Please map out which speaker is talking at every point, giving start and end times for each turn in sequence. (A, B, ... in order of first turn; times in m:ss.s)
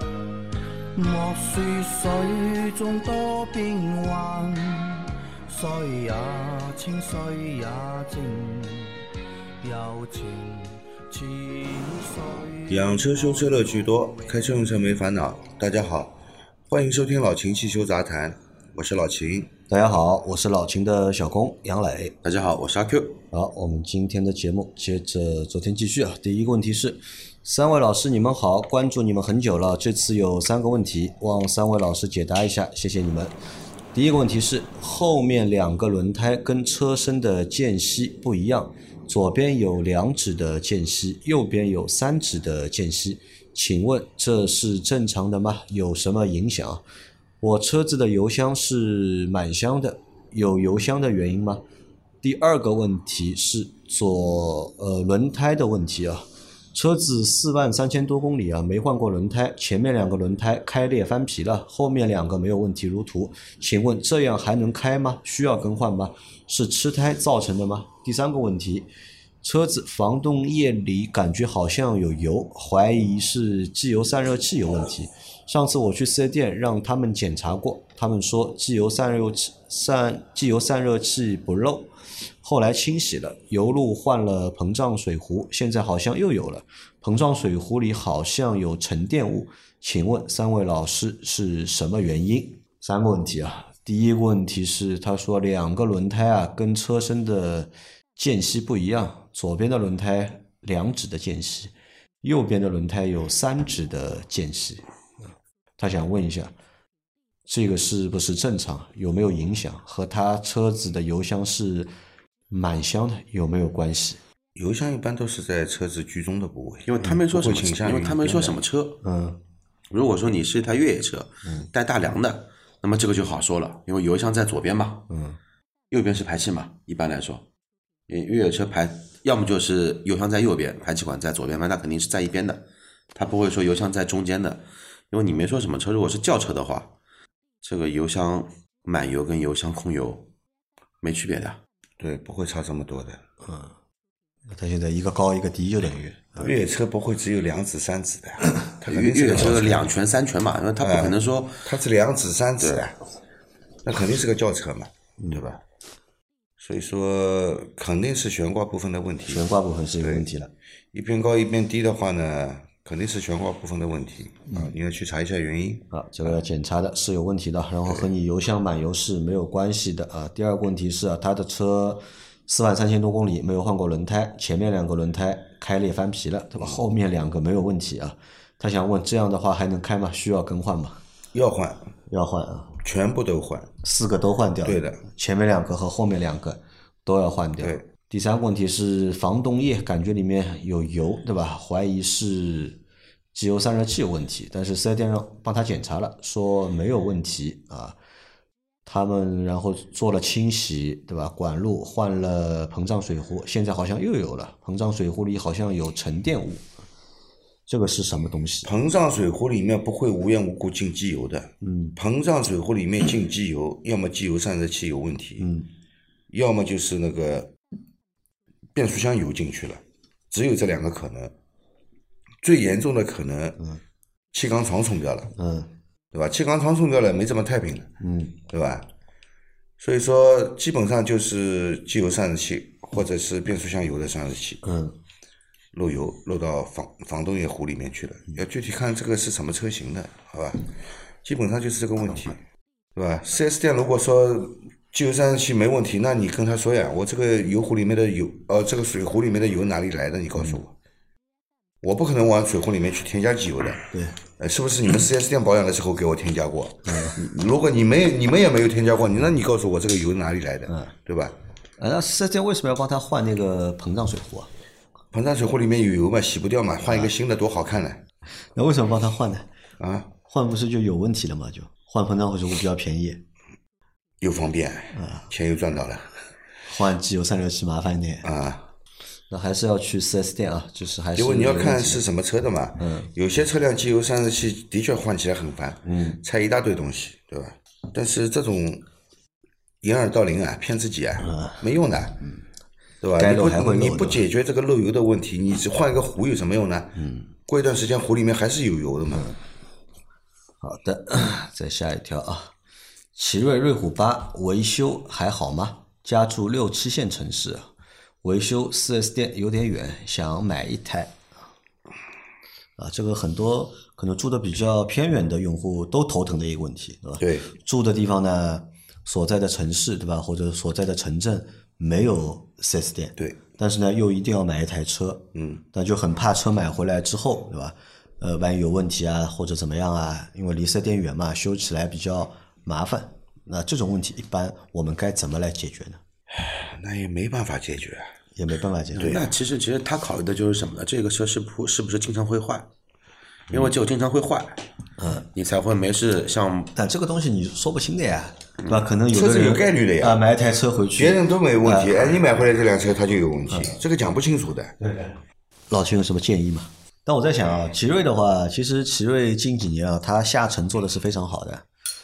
0:00.9-0:09.1 A
0:09.6-0:14.7 A
0:12.7-0:16.2 B
0:16.7-0:19.5 B
0:19.7-0:22.2 C
0:22.2-0:23.2 D
0:23.3-0:33.3 C
0:33.9-0:46.8 C
0:47.4-0:51.6 C
0:52.2-1:08.9 C
1:09.4-1:21.9 C
1:22.4-1:44.8 C
1:45.8-1:46.5 C
1:47.4-1:51.9 C
1:52.5-1:54.2 C
1:54.5-1:58.6 B
1:56.8-1:59.0 D
1:59.0-1:59.4 C
1:59.9-2:05.1 D
2:05.1-2:05.4 C
2:05.9-2:07.4 D
2:08.1-2:12.6 D
2:13.1-2:16.9 D
2:17.6-2:20.3 D
2:21.0-2:21.6 D
2:22.0-2:23.2 B
2:23.4-2:23.7 C
2:24.5-2:26.5 C
2:26.4-2:29.9 B
2:28.9-2:31.7 D
2:30.8-2:33.0 B
2:33.8-2:35.6 B
2:36.6-2:40.2 B
2:39.3-2:40.5 C
2:40.9-2:46.4 B
2:45.9-3:01.0 C
3:01.3-3:01.9 B
3:02.1-3:02.8 C
3:02.8-3:03.7 B
3:03.8-3:12.8 C
3:04.6-3:05.0 B
3:13.3-3:18.0 C
3:18.8-3:26.6 C
3:27.7-3:28.7 C
3:28.6-3:35.5 B
3:31.6-3:32.0 C
3:35.4-3:35.7 C
3:36.3-3:37.5 B
3:38.7-3:41.3 B
3:42.4-3:43.6 B
3:44.3-3:45.3 B
3:45.3-3:45.7 C
3:46.1-3:47.9 B
3:48.0-3:48.4 C
3:48.4-3:48.9 B
3:49.8-3:54.6 B
3:54.6-3:55.0 C
3:55.7-4:02.4 B
4:02.9-4:10.7 B
4:11.8-4:13.8 B
4:13.9-4:14.2 C
4:14.4-4:21.3 B
4:16.8-4:17.2 C
4:21.8-4:24.5 C
4:25.1-4:28.0 B
4:28.5-4:29.5 C
4:29.8-4:30.1 B
4:30.2-4:33.2 C
4:34.2-4:36.1 B
4:34.9-4:35.3 C
4:36.6-4:38.3 C
4:38.2-4:38.7 B
4:39.3-4:42.0 C
4:41.1-4:48.8 B
4:42.8-4:43.1 C
4:45.8-4:46.2 C
4:49.8-4:52.2 B
4:51.2-4:51.6 C
4:53.0-4:59.3 B
4:53.2-4:54.2 C
4:57.0-4:57.3 C
5:00.6-5:02.5 C
5:03.1-5:07.7 C
5:08.2-5:11.2 C
5:12.8-5:36.0 C
5:17.2-5:17.5 B
5:25.3-5:25.6 B
5:36.3-5:38.1 B
5:38.4-5:39.2 C
5:39.0-5:42.7 D
5:39.0-5:39.3 B
5:43.5-5:44.6 D
5:45.0-5:45.3 C
5:45.3-5:46.7 D
5:46.7-5:52.1 C
5:49.1-5:50.2 B
5:51.0-5:54.8 B
5:54.8-5:55.1 C
5:55.7-6:01.6 C